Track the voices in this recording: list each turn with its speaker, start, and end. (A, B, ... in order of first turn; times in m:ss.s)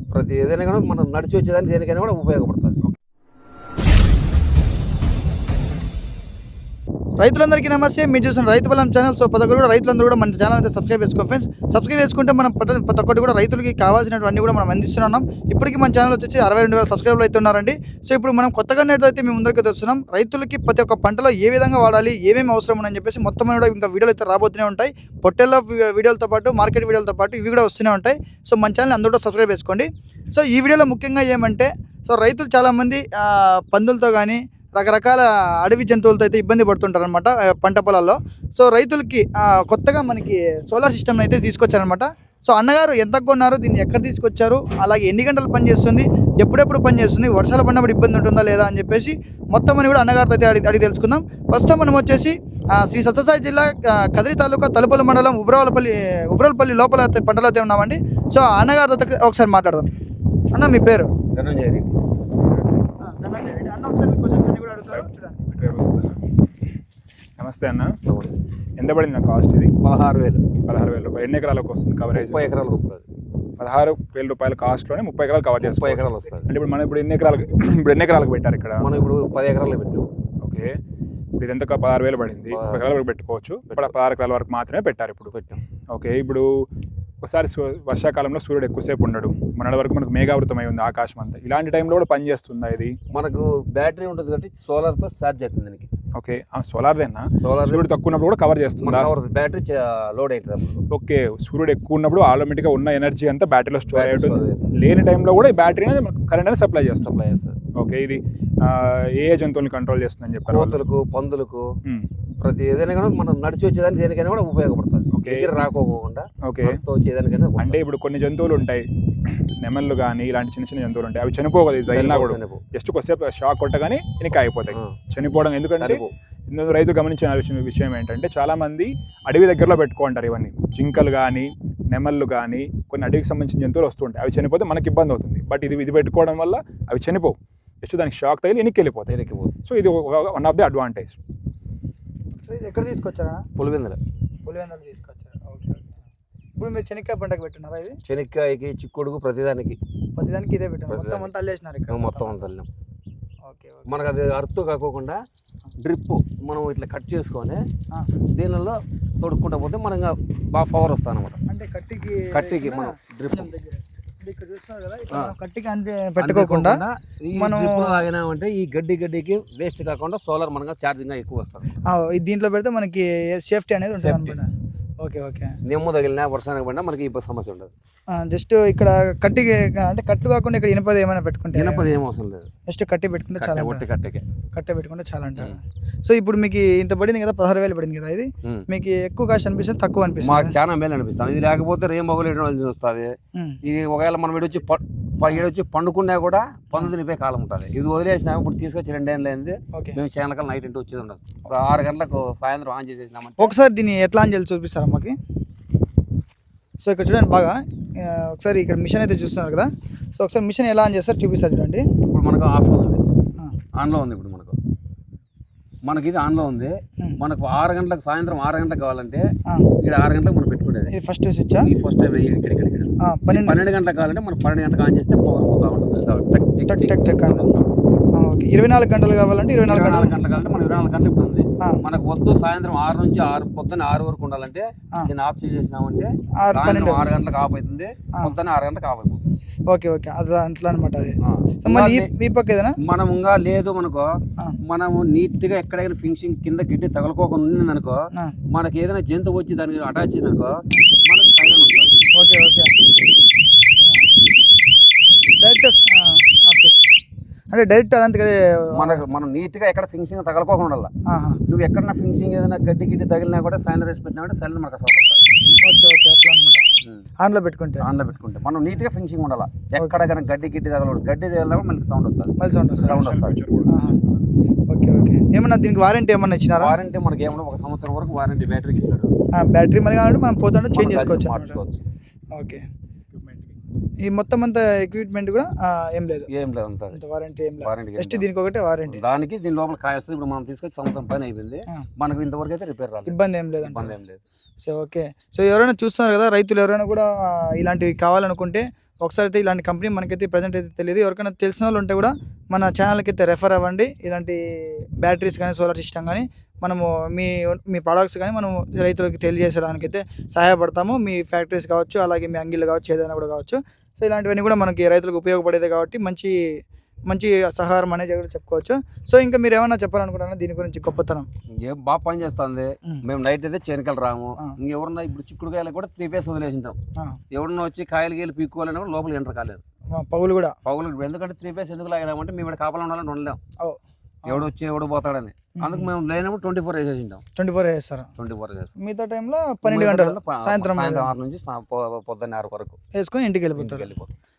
0:00.1-0:02.8 A
0:07.2-0:59.9 B
1:00.5-1:01.1 B
1:01.3-1:02.0 A
1:02.4-1:02.8 C
1:03.0-1:05.5 B
1:04.9-1:06.2 C
1:07.4-1:08.0 C
1:08.1-1:08.4 A
1:08.8-1:09.7 C
1:09.8-1:10.4 A
1:10.7-1:12.5 C
1:12.1-1:13.0 A
1:13.6-1:18.9 C
1:15.6-1:16.5 A
1:18.8-1:20.1 A
1:20.4-1:20.7 C
1:21.4-1:25.3 C
1:22.5-1:22.9 A
1:25.3-1:25.6 A
1:25.9-1:26.5 C
1:27.2-1:32.9 C
1:33.1-1:35.9 A
1:36.2-1:39.1 C
1:37.4-1:37.9 A
1:38.8-1:40.8 A
1:40.9-1:47.1 C
1:43.8-1:44.7 A
1:47.0-1:47.6 A
1:47.8-1:50.8 C
1:50.5-1:51.7 A
1:52.4-1:57.8 A
1:55.2-1:55.5 C
1:56.5-1:56.8 C
1:57.6-2:19.1 C
2:01.9-2:02.6 A
2:05.8-2:06.1 A
2:19.1-2:19.6 A
2:19.6-2:21.2 C
2:22.4-2:23.5 B
2:23.6-2:24.0 A
2:24.4-2:26.1 B
2:26.6-2:28.0 B
2:28.1-2:29.8 A
2:30.2-2:32.4 B
2:30.9-2:31.3 A
2:31.9-2:32.7 A
2:33.4-2:34.1 B
2:33.9-2:35.2 A
2:35.8-2:37.6 A
2:38.4-2:41.4 A
2:41.5-2:48.1 B
2:42.3-2:43.5 A
2:46.2-2:51.7 A
2:51.9-2:55.5 B
2:54.0-2:54.4 A
2:55.7-2:57.7 A
2:58.1-3:02.0 B
3:01.5-3:02.5 A
3:02.7-3:03.8 B
3:03.4-3:04.2 A
3:04.5-3:10.6 B
3:10.2-3:13.1 A
3:13.6-3:23.5 A
3:23.4-3:25.2 B
3:26.8-3:31.8 B
3:32.1-3:33.0 A
3:33.8-3:34.6 A
3:35.9-3:39.3 A
3:39.8-3:40.9 A
3:40.9-3:41.7 B
3:41.6-3:47.7 A
3:43.0-3:43.6 B
3:46.7-3:47.5 B
3:48.1-3:50.2 B
3:49.6-3:59.2 A
3:56.4-3:57.1 B
3:59.7-4:02.7 B
4:01.2-4:02.1 A
4:02.8-4:04.1 A
4:04.7-4:08.0 A
4:08.5-4:10.5 A
4:11.1-4:11.9 A
4:12.1-4:12.7 B
4:13.8-4:14.1 B
4:15.4-4:16.9 B
4:17.5-4:19.0 B
4:18.7-4:20.9 A
4:21.1-4:21.4 B
4:21.5-4:25.2 A
4:25.6-4:26.7 B
4:27.2-4:27.8 B
4:27.8-4:33.4 A
4:32.4-4:32.9 B
4:32.7-4:34.2 C
4:33.7-4:34.0 B
4:34.7-4:36.8 B
4:36.6-4:39.1 A
4:39.3-4:41.6 B
4:40.7-4:41.8 A
4:42.3-4:42.6 B
4:43.2-4:43.6 C
4:44.0-4:46.3 B
4:46.3-4:47.0 A
4:46.9-4:49.0 B
4:47.6-4:48.2 A
4:48.9-4:54.2 A
4:53.1-4:54.0 B
4:54.6-5:16.4 B
5:17.1-5:21.3 B
5:21.6-5:26.8 A
5:27.3-5:29.6 A
5:29.9-5:30.6 B
5:30.6-5:33.4 A
5:33.6-5:34.5 B
5:34.3-5:37.2 A
5:35.6-5:35.9 B
5:37.4-5:38.1 B
5:38.2-5:38.7 A
5:38.8-5:41.1 B
5:39.6-5:42.8 A
5:43.0-5:43.9 B
5:43.6-5:44.1 A